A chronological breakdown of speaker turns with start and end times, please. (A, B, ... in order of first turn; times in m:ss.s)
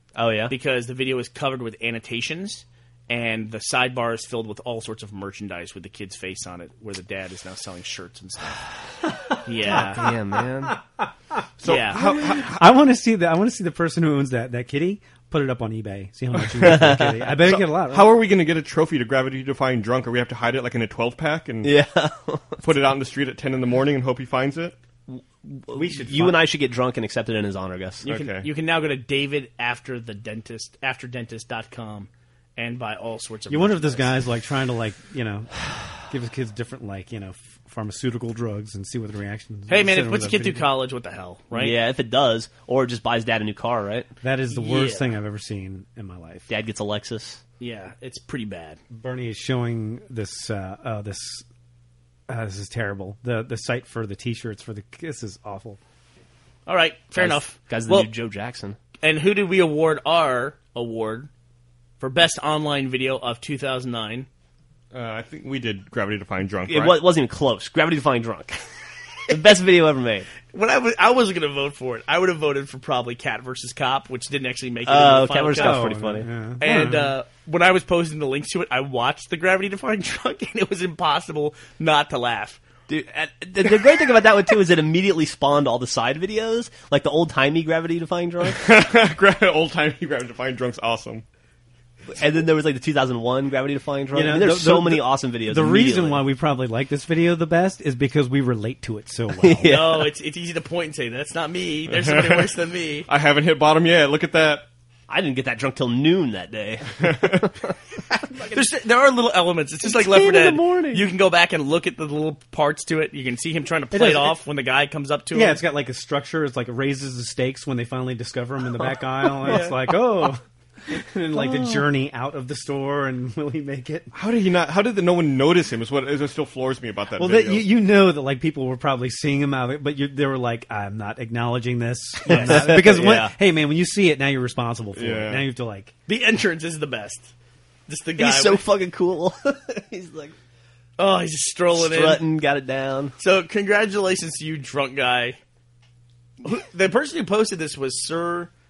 0:00.1-0:00.5 A
0:00.5-0:08.7 B
0:09.4-0:10.1 B
0:09.6-0:10.8 A
0:11.6-0:12.6 C
0:11.6-0:12.0 B
0:11.9-0:18.2 D
0:16.5-0:21.8 C
0:16.6-0:17.2 A
0:21.6-0:22.6 A
0:22.6-0:24.8 C
0:25.1-0:28.2 A
0:25.7-0:26.4 D
0:28.0-0:34.1 B
0:28.0-0:28.5 C
0:33.5-0:40.7 D
0:39.7-0:41.8 B
0:41.5-0:44.1 A
0:44.2-0:46.5 D
0:44.5-0:45.1 B
0:46.5-0:47.4 A
0:47.6-0:48.8 B
0:48.9-0:51.4 D
0:52.3-0:55.8 D
0:56.6-0:58.1 B
0:57.2-0:58.8 A
0:59.0-1:01.3 B
1:02.0-1:04.3 B
1:04.9-1:07.0 C
1:06.7-1:08.6 A
1:09.3-1:10.3 A
1:10.5-1:15.9 B
1:14.8-1:16.3 A
1:15.5-1:17.1 D
1:16.6-1:22.6 B
1:22.9-1:28.7 A
1:28.4-1:31.2 C
1:32.1-1:36.2 A
1:34.1-1:39.8 D
1:39.4-1:40.1 A
1:39.6-1:43.1 B
1:41.9-1:42.5 C
1:43.1-1:44.7 C
1:45.1-1:47.7 A
1:47.0-1:47.4 C
1:48.3-1:48.6 A
1:48.5-1:55.6 B
1:49.8-1:51.1 A
1:53.9-1:54.4 D
1:55.3-2:04.1 D
1:59.5-1:59.8 B
2:04.1-2:07.7 C
2:07.2-2:15.9 D
2:12.3-2:13.3 A
2:12.5-2:12.9 B
2:15.0-2:15.5 C
2:16.1-2:17.3 B
2:17.9-2:18.6 B
2:18.2-2:20.3 A
2:21.0-2:22.2 B
2:21.7-2:23.1 A
2:23.2-2:25.4 B
2:26.4-2:28.5 B